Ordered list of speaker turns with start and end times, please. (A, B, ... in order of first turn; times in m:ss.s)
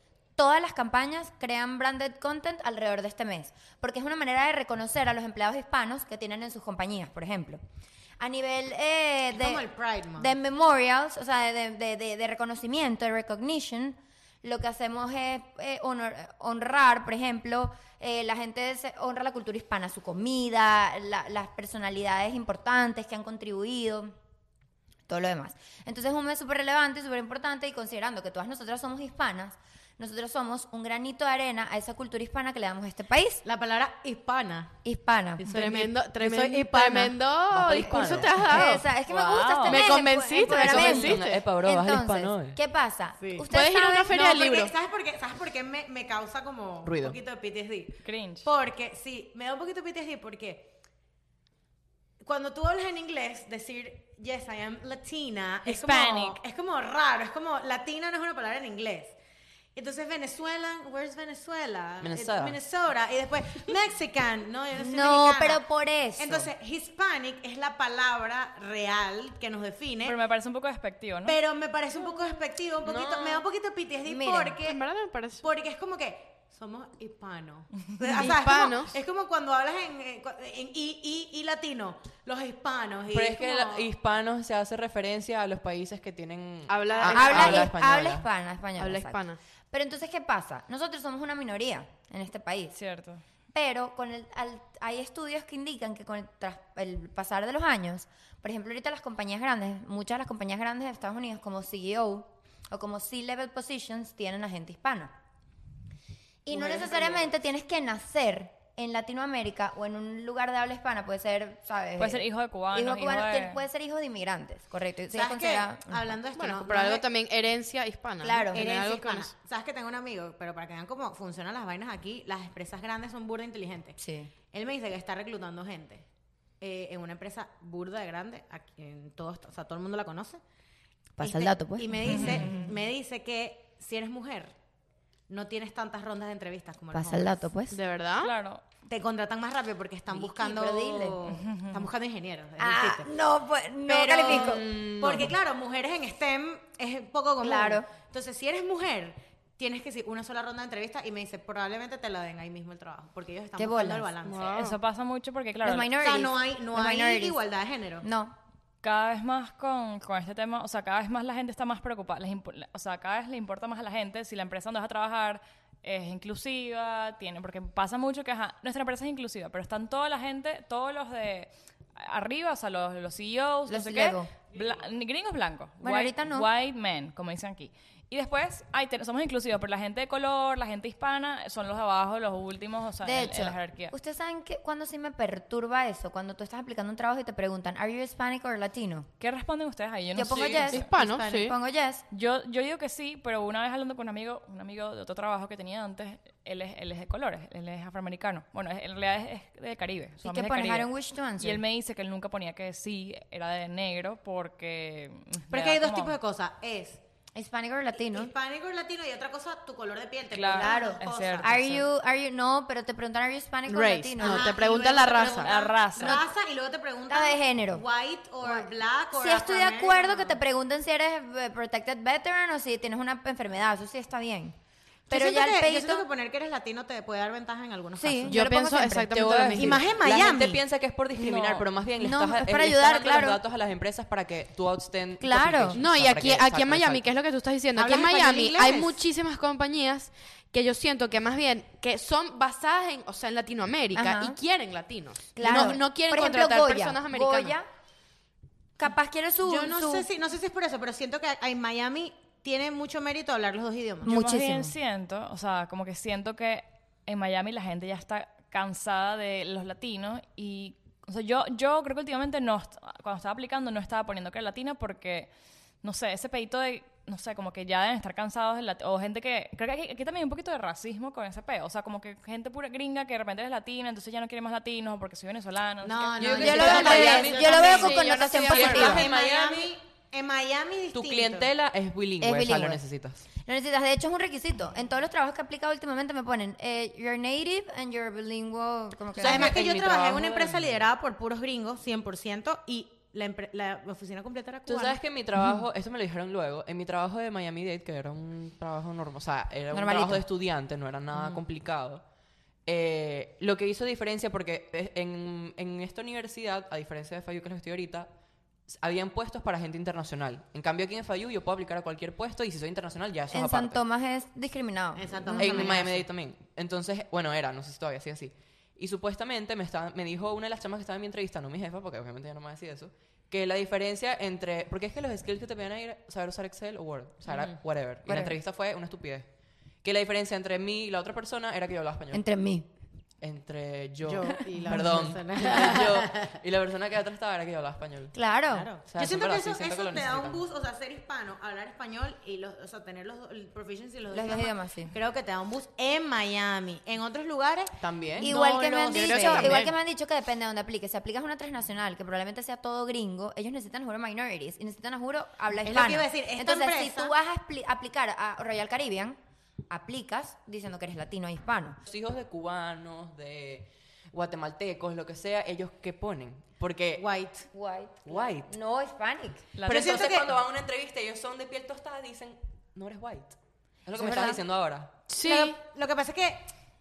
0:00.4-0:07.6 A
0:08.2-0:09.6 A
0:09.3-0:10.3 B
0:10.2-0:24.1 A
0:25.1-0:33.4 A
0:33.4-0:34.8 B
0:34.8-0:35.5 A
0:35.4-0:38.8 C
0:35.4-0:37.2 B
0:37.5-0:38.5 D
0:37.8-0:38.2 B
0:37.9-0:44.2 A
0:39.1-0:39.9 E
0:39.6-0:41.4 C
0:40.4-0:42.6 D
0:43.2-0:43.4 B
0:43.5-0:44.7 C
0:44.1-0:50.7 B
0:46.8-0:47.2 D
0:48.0-0:48.5 E
0:52.2-0:59.1 B
0:55.6-0:56.4 E
0:59.7-1:05.6 B
1:02.0-1:02.6 D
1:04.7-1:06.5 A
1:06.2-1:10.2 B
1:10.0-1:11.4 E
1:11.2-1:14.8 B
1:12.8-1:13.4 D
1:14.0-1:14.6 A
1:14.6-1:15.4 C
1:15.4-1:23.9 B
1:18.1-1:18.9 C
1:23.1-1:28.2 D
1:26.7-1:27.7 C
1:27.0-1:29.2 A
1:28.8-1:29.4 C
1:29.7-1:32.8 A
1:32.7-1:33.2 E
1:33.5-1:45.1 A
1:46.4-1:56.1 A
1:46.5-1:47.3 B
1:52.0-1:53.6 E
1:55.1-1:57.0 B
1:56.4-1:59.3 C
1:58.2-1:58.6 A
1:58.5-2:06.0 B
2:04.0-2:04.3 A
2:06.6-2:10.4 B
2:11.2-2:12.7 A
2:11.2-2:14.5 B
2:12.1-2:12.7 E
2:15.3-2:17.4 B
2:16.9-2:17.8 A
2:17.7-2:18.3 C
2:18.2-2:18.6 E
2:18.8-2:23.1 B
2:20.1-2:21.3 A
2:21.3-2:21.8 E
2:22.6-2:24.6 A
2:23.9-2:34.5 B
2:24.3-2:25.3 D
2:27.4-2:27.9 A
2:33.6-2:34.1 A
2:34.2-2:34.8 C
2:34.4-2:36.0 E
2:35.6-2:37.4 A
2:36.0-2:38.0 B
2:38.0-2:38.3 A
2:38.8-3:03.9 E
2:53.7-2:54.3 A
2:55.8-2:56.5 A
3:03.0-3:09.1 A
3:09.2-3:10.8 E
3:10.1-3:12.0 A
3:10.3-3:10.8 D
3:10.7-3:11.6 C
3:10.9-3:11.4 B
3:12.1-3:20.9 E
3:20.2-3:21.6 A
3:21.4-3:26.1 E
3:25.5-3:27.0 B
3:27.3-3:28.3 A
3:28.0-3:31.5 B
3:30.3-3:31.8 E
3:30.6-3:34.7 A
3:33.6-3:35.6 C
3:34.2-3:40.4 B
3:35.4-3:36.2 E
3:36.0-3:36.3 A
3:37.1-3:37.8 A
3:38.4-3:44.6 A
3:45.1-3:46.1 A
3:45.1-3:48.4 B
3:48.0-3:49.6 A
3:48.3-3:49.8 C
3:49.2-3:57.0 D
3:49.5-3:50.6 B
3:51.3-3:51.6 E
3:52.0-3:53.4 A
3:55.2-3:55.8 A
3:55.8-4:07.6 C
3:57.8-3:59.0 B
4:03.9-4:04.4 A
4:05.4-4:07.7 A
4:08.8-4:10.1 A
4:09.4-4:14.2 B
4:14.0-4:14.7 A
4:14.0-4:25.3 E
4:25.8-4:36.8 E
4:35.8-4:38.0 B
4:36.2-4:39.7 D
4:36.3-4:39.1 A
4:36.5-4:39.0 C
4:38.6-4:41.5 B
4:40.9-4:43.2 D
4:42.2-4:42.8 A
4:43.3-4:49.6 A
4:49.2-4:50.8 D
4:49.2-4:55.0 B
4:54.7-5:02.0 D
4:59.7-5:00.2 A
5:02.6-5:08.1 D
5:08.7-5:13.8 D
5:13.3-5:15.8 A
5:15.0-5:16.0 B
5:15.3-5:29.3 D
5:28.0-5:28.4 A
5:29.8-5:32.2 D
5:32.1-5:32.7 A
5:33.2-5:38.1 D
5:34.0-5:36.3 B
5:38.1-5:38.7 A
5:38.5-5:47.8 B
5:38.9-5:40.4 D
5:44.1-5:44.9 A
5:47.8-5:48.3 D
5:48.2-5:59.2 A
5:48.2-5:49.8 C
5:48.3-5:49.6 B
5:55.6-5:57.1 B
5:59.7-6:01.8 A
6:01.9-6:07.1 D
6:07.0-6:07.4 B
6:07.5-6:09.5 A
6:08.0-6:08.5 D
6:09.5-6:10.0 E
6:09.6-6:13.3 D
6:09.7-6:10.4 B
6:13.8-6:15.0 D
6:14.0-6:14.4 A
6:15.1-6:15.6 C
6:15.2-6:16.4 B